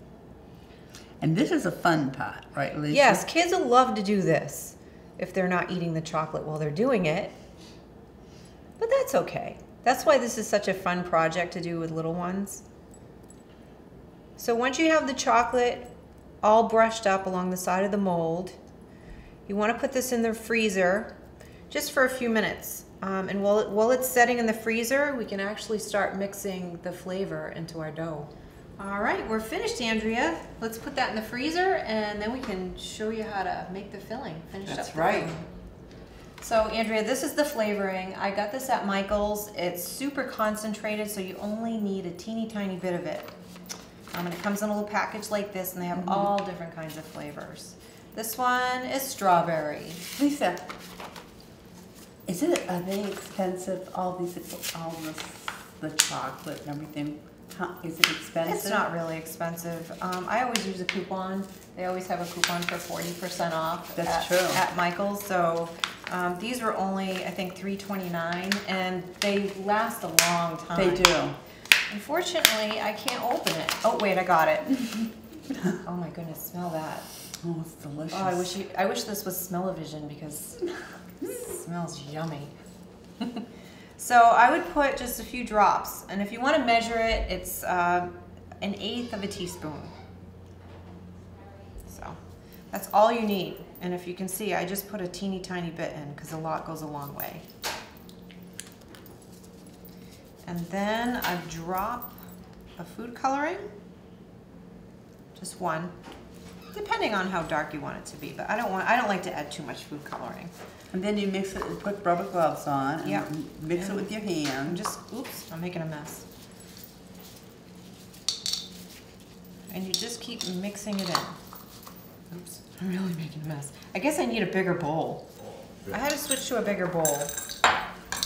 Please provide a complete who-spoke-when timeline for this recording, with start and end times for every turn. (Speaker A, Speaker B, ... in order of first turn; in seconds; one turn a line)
Speaker A: 1.2-3.2
Speaker B: 2.9-7.3
Speaker B: 8.8-12.6
Speaker B: 14.4-15.9
Speaker B: 16.4-18.6
Speaker B: 19.5-21.1
Speaker B: 21.7-35.5
Speaker A: 34.6-35.3
Speaker B: 36.4-43.3
Speaker B: 44.1-50.0
Speaker A: 45.9-46.3
Speaker A: 50.2-50.6
Speaker A: 52.3-58.9
Speaker B: 58.5-71.1
Speaker A: 64.0-64.6
Speaker A: 70.7-71.4
Speaker B: 71.9-74.8
Speaker B: 75.8-77.1
Speaker A: 77.4-78.5
Speaker B: 78.1-80.6
Speaker B: 81.3-82.5
Speaker B: 84.0-89.9
Speaker B: 91.9-92.2
Speaker B: 92.7-97.4
Speaker B: 100.5-102.2
Speaker B: 102.8-103.7
Speaker B: 105.4-106.0
Speaker B: 106.7-110.5
Speaker A: 110.9-114.8
Speaker B: 113.0-116.2
Speaker B: 119.7-121.4
Speaker A: 122.3-122.6
Speaker B: 122.7-125.3
Speaker B: 125.9-127.3